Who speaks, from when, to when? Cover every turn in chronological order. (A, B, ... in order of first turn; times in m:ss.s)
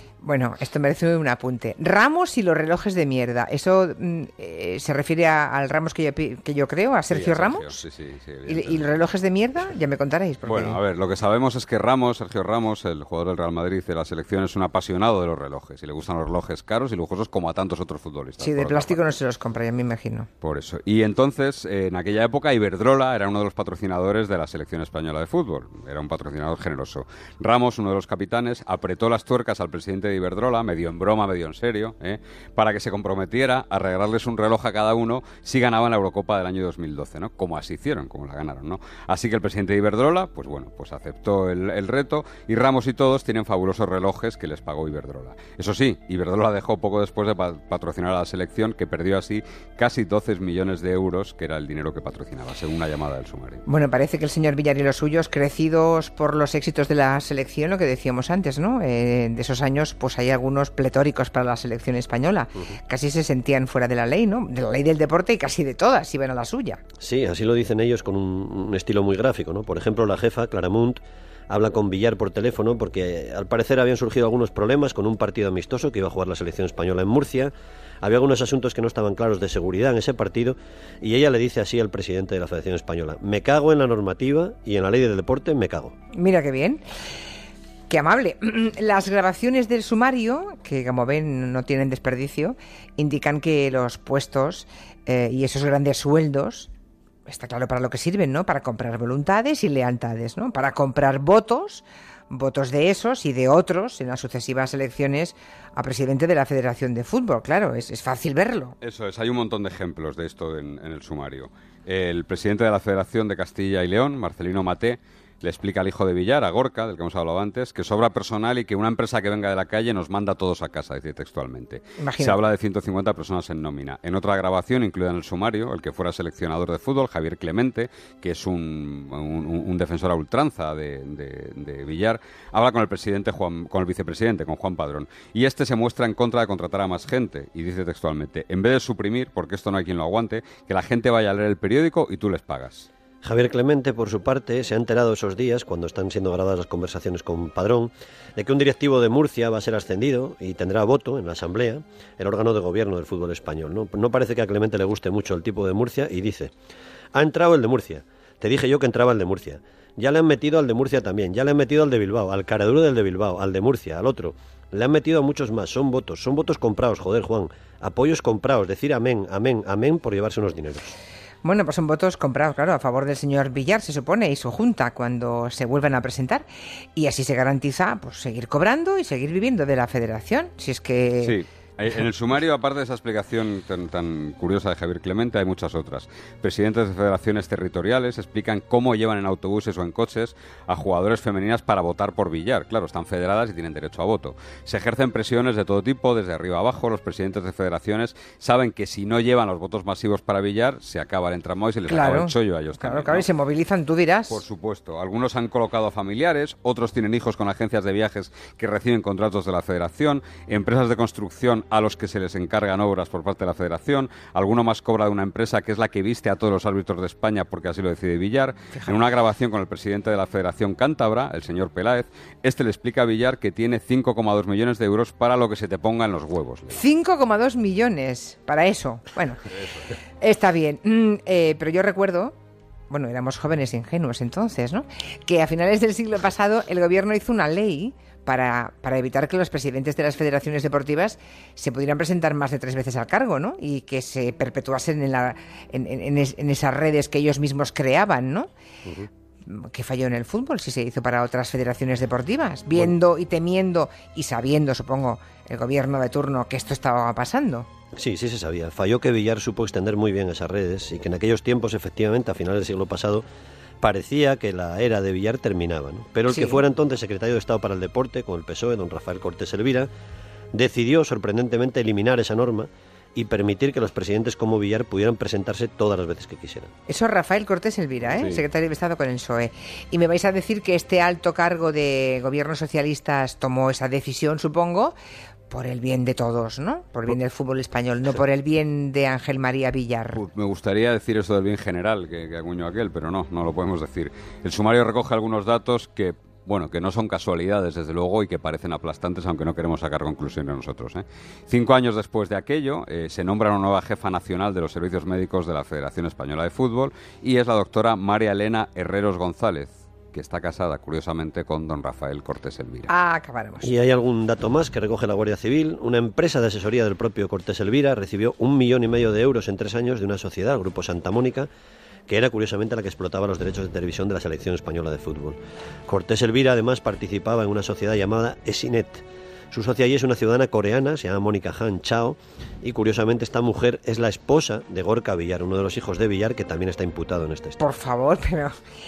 0:00.2-0:07.7 A
0:07.1-0:08.8 B
0:08.4-0:10.8 A
0:10.5-0:19.0 B
0:18.4-0:20.3 A
0:20.4-0:53.6 B
0:53.6-1:06.8 A
1:07.0-1:25.9 C
1:26.1-1:26.8 A
1:27.9-1:36.7 A
1:37.3-1:48.8 A
1:48.8-2:22.9 B
2:02.0-2:02.4 A
2:23.2-2:36.5 C
2:37.1-2:50.9 C
2:51.4-3:01.4 A
3:01.2-3:23.2 B
3:21.9-3:24.4 A
3:24.3-3:46.8 B
3:46.7-3:49.4 A
3:49.5-3:49.9 B
3:50.2-3:52.3 A
3:52.9-4:08.5 A
4:08.8-4:09.1 C
4:09.4-4:17.6 A
4:18.0-4:23.2 C
4:23.8-4:29.9 C
4:26.3-4:26.6 A
4:30.5-4:36.7 C
4:36.9-4:44.9 A
4:45.5-4:50.2 A
4:50.1-5:12.9 B
5:12.9-5:13.7 A
5:13.6-5:21.5 C
5:22.1-5:37.6 C
5:37.6-5:38.6 A